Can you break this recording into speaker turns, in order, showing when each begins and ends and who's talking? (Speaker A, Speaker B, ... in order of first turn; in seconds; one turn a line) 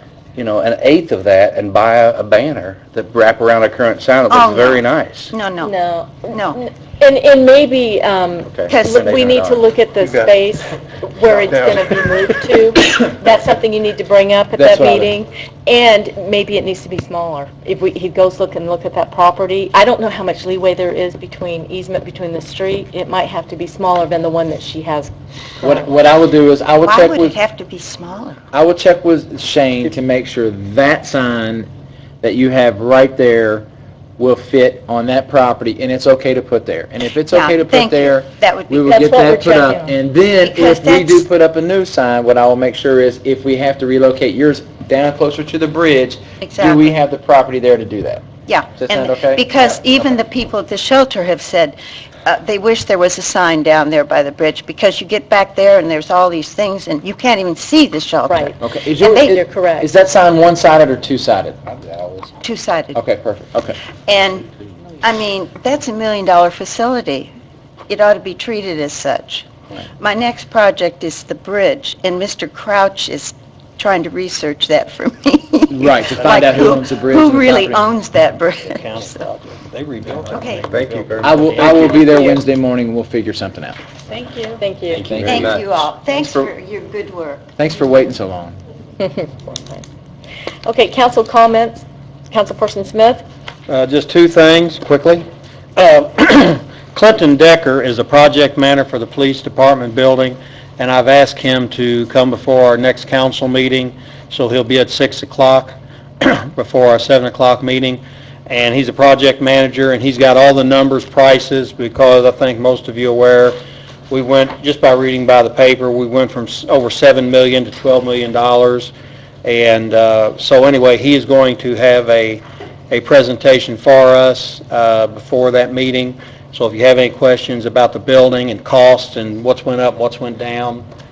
Speaker A: 0.3-5.3
Speaker B: 4.3-5.8
Speaker C: 5.6-25.8
Speaker B: 6.3-6.6
Speaker A: 8.5-9.6
Speaker B: 8.7-9.1
Speaker D: 14.6-15.1
Speaker D: 25.6-27.4
Speaker B: 26.8-28.4
Speaker D: 28.5-31.7
Speaker D: 32.2-33.7
Speaker D: 34.2-48.2
Speaker B: 37.3-38.9
Speaker C: 38.8-40.0
Speaker B: 40.4-41.2
Speaker B: 46.4-46.8
Speaker B: 48.5-59.3
Speaker D: 48.8-49.8
Speaker C: 58.3-58.6
Speaker D: 58.6-61.6
Speaker C: 59.1-59.9
Speaker A: 61.7-62.3
Speaker B: 62.4-63.0
Speaker D: 62.9-63.8
Speaker B: 64.1-67.3
Speaker B: 67.9-69.5
Speaker B: 70.0-79.2
Speaker D: 75.7-77.8
Speaker E: 76.2-76.5
Speaker E: 78.6-82.2
Speaker B: 80.3-80.7
Speaker A: 81.2-81.9
Speaker D: 81.2-83.8
Speaker C: 82.0-82.4
Speaker C: 84.2-85.1
Speaker D: 84.9-85.6
Speaker A: 85.0-85.6
Speaker B: 85.2-87.5
Speaker D: 87.6-88.6
Speaker C: 89.0-89.8
Speaker C: 90.7-93.2
Speaker E: 93.7-113.6
Speaker E: 114.1-118.9
Speaker E: 119.4-130.8